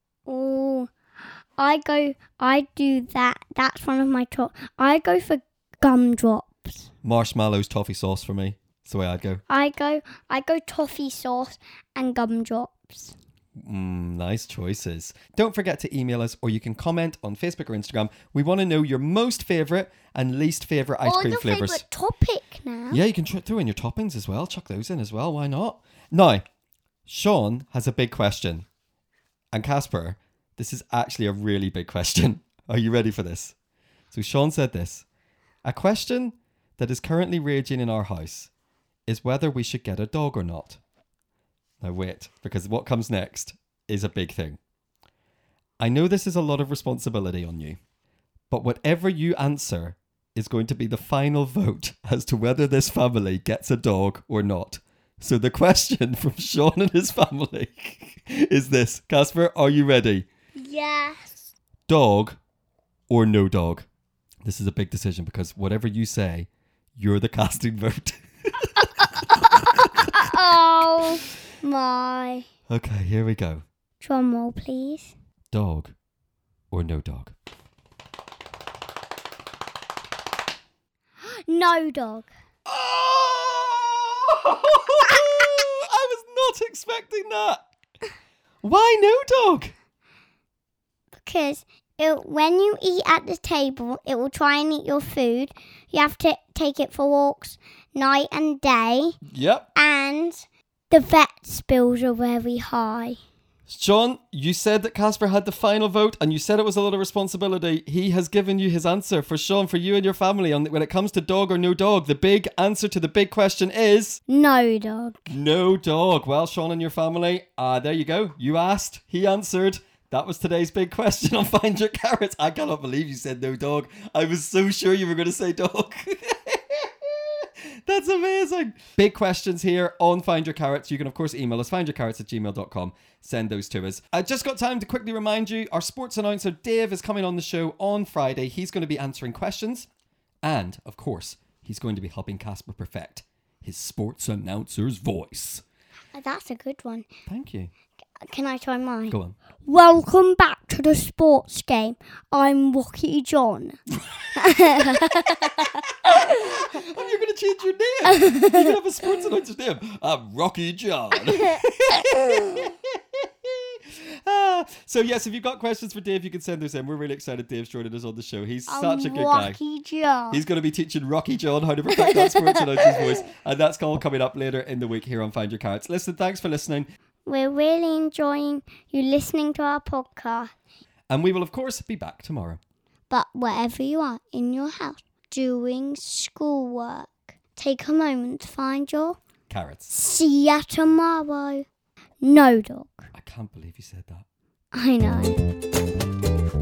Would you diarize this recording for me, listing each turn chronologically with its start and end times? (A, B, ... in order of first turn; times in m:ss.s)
0:00.2-0:00.9 A
0:01.6-0:06.9 A
0:07.0-0:09.4 B
0:09.5-0:13.2 A
0:13.6-0:21.8 B
0:21.0-0:23.0 A
0:22.9-0:26.4 B
0:27.0-0:28.6 B
0:29.5-0:33.5 B
0:34.1-0:35.0 B
0:35.6-0:38.5 B
0:39.1-0:40.8 B
0:41.8-0:44.6 B
0:45.8-0:47.8 B
0:48.5-1:00.2 B
1:00.6-1:01.5 A
1:01.9-1:02.4 B
1:03.1-1:03.8 B
1:04.4-1:09.6 B
1:10.1-1:12.5 A
1:12.7-1:13.6 B
1:14.0-1:15.1 A
1:15.5-1:15.9 B
1:16.7-1:17.3 B
1:21.5-1:22.3 A
1:22.6-1:27.6 B
1:28.6-1:29.7 B
1:31.2-1:39.1 A
1:39.3-1:39.7 B
1:39.7-1:43.2 A
1:43.7-1:54.2 B
1:54.3-1:55.2 A
1:55.3-2:19.9 B
2:20.4-2:25.6 B
2:26.1-2:27.0 A
2:27.3-2:27.7 B
2:28.2-2:33.8 A
2:29.1-2:29.4 B
2:34.4-2:35.6 A
2:34.9-2:35.4 B
2:36.1-2:49.6 B
2:38.2-2:38.7 A
2:48.7-2:50.4 A
2:50.3-2:56.9 B
2:52.0-2:53.1 A
2:57.2-3:00.5 A
3:01.1-3:02.6 B
3:03.1-3:09.2 A
3:09.5-3:09.9 B
3:09.9-3:11.6 A
3:12.2-3:13.1 A
3:13.1-3:14.2 B
3:14.7-3:15.4 A